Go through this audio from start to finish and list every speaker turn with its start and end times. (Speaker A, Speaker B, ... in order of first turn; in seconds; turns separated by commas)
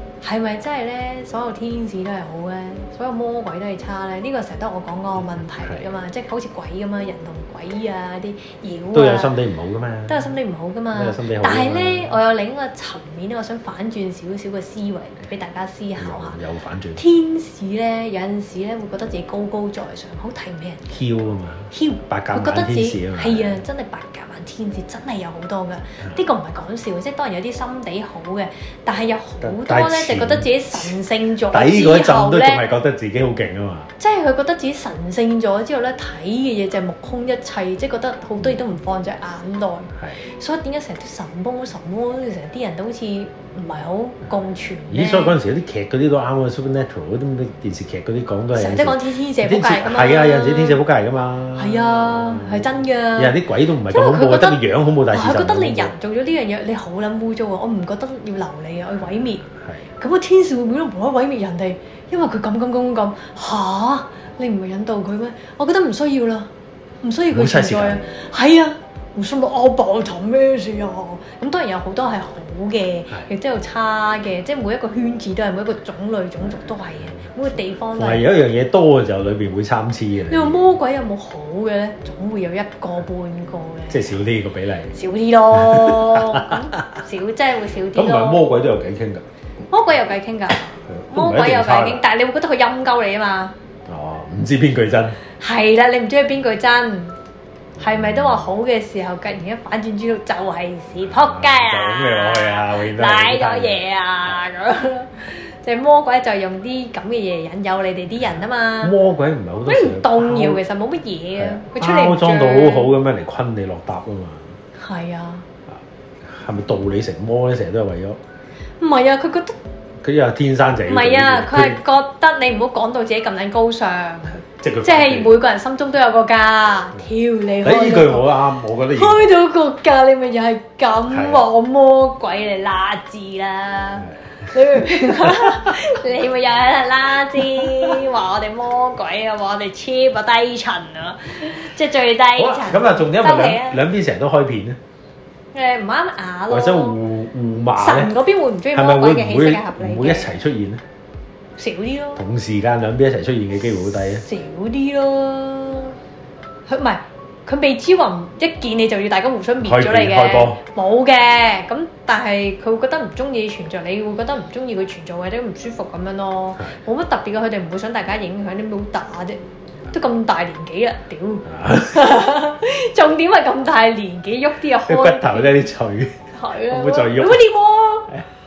Speaker A: 0.2-9.3, Speaker B: 8.9-10.2, Speaker A: 10.1-16.4, Speaker B: 10.9-12.1, Speaker B: 16.0-17.0, Speaker A: 16.9-20.9, Speaker B: 20.9-23.6, Speaker A: 21.7-32.6, Speaker B: 29.4-30.9, Speaker B: 31.5-33.9, Speaker A: 34.0-45.4, Speaker B: 44.9-52.6, Speaker A: 48.5-50.8, Speaker A: 51.5-59.5, Speaker B: 53.1-55.9, Speaker B: 59.5-59.8, Speaker A: 60.0-66.5, Speaker A: 67.0-78.2, Speaker B: 67.3-68.0, Speaker B: 78.0-80.6, Speaker A: 80.3-84.2, Speaker B: 83.9-85.0, Speaker A: 84.9-88.5, Speaker B: 85.5-86.7, Speaker B: 87.9-89.2, Speaker A: 89.7-93.5, Speaker B: 90.9-92.0, Speaker B: 93.9-95.2, Speaker A: 95.4-97.2, Speaker A: 97.8-108.9, Speaker B: 101.0-103.8, Speaker B: 108.8-110.6, Speaker A: 109.7-112.9, Speaker B: 111.4-114.5, Speaker A: 114.8-115.5, Speaker B: 115.7-118.2, Speaker A: 118.8-119.5, Speaker B: 120.0-121.8, Speaker A: 120.8-143.8, Speaker B: 124.5-125.3, Speaker B: 127.6-129.3, Speaker B: 131.1-131.4, Speaker B: 142.3-144.8, Speaker A: 145.5-147.0, Speaker B: 146.5-148.1, Speaker A: 147.8-150.3, Speaker B: 148.7-150.8, Speaker A: 151.6-152.2, Speaker B: 152.2-154.2, Speaker A: 154.1-155.9, Speaker A: 156.7-175.5, Speaker B: 159.6-160.6, Speaker B: 171.5-172.0, Speaker B: 174.9-176.1, Speaker A: 176.3-178.2, Speaker B: 176.7-177.4